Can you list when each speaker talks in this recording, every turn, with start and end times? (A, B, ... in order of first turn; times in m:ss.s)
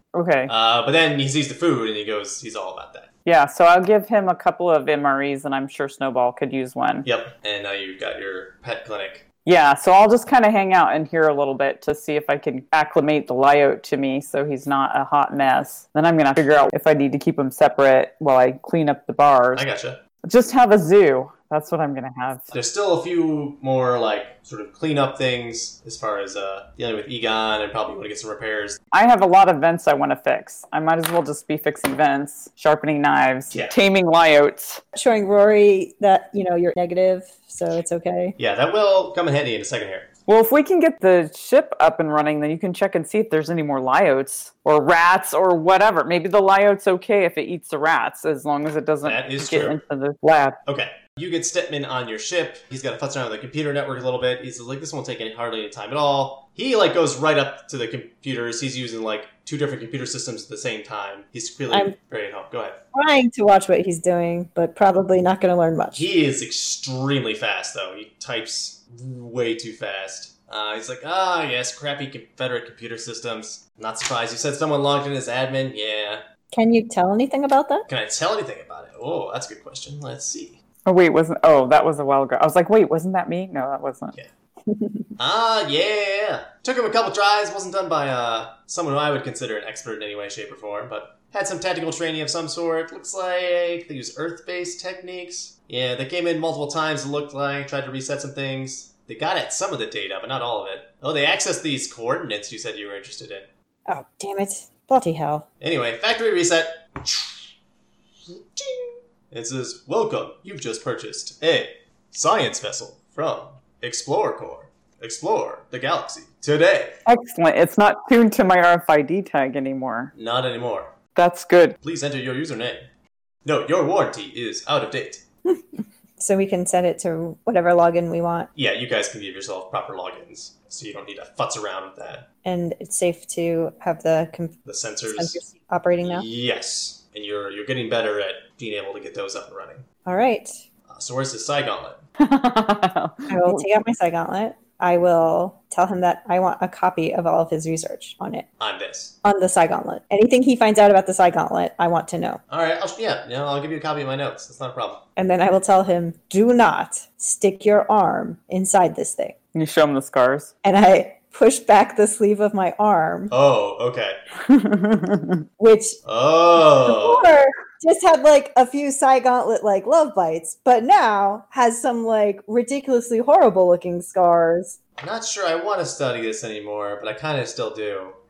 0:00.1-0:00.5 A
0:00.5-0:03.1 B
0:03.2-0:07.1 A
0:07.0-0:09.2 B
0:09.4-0:19.6 A
0:19.5-0:20.0 B
0:20.2-0:22.5 A
0:22.5-0:28.8 B
0:28.9-0:34.8 A
0:34.9-0:38.4 C
0:38.4-0:40.1 B
0:40.3-0:50.6 A
0:49.0-0:49.8 B
0:50.6-1:02.8 B
1:02.9-1:06.1 C
1:05.9-1:16.2 B
1:16.5-1:17.8 C
1:17.9-1:20.6 B
1:20.8-1:24.1 A
1:24.8-1:25.0 C
1:25.2-1:43.5 B
1:43.9-1:45.4 C
1:45.6-1:47.5 B
1:48.3-1:57.0 B
1:57.0-2:00.1 A
2:00.1-2:00.9 B
2:01.2-2:01.8 A
2:01.8-2:02.8 B
2:03.4-2:05.2 B
2:06.2-2:08.5 C
2:08.5-2:12.2 B
2:12.4-2:16.2 C
2:14.6-2:15.4 B
2:16.0-2:19.8 B
2:20.0-2:20.6 C
2:20.9-2:22.0 B
2:22.2-2:23.6 A
2:23.3-2:28.4 C
2:28.6-2:29.1 B
2:29.2-2:32.4 C
2:32.5-2:35.0 B
2:35.2-2:39.3 C
2:39.5-2:40.5 A
2:40.6-2:43.3 C
2:43.3-2:44.2 B
2:44.4-2:45.4 A
2:45.6-2:46.0 C
2:46.0-2:47.3 B
2:46.8-2:54.8 C
2:55.0-2:58.2 B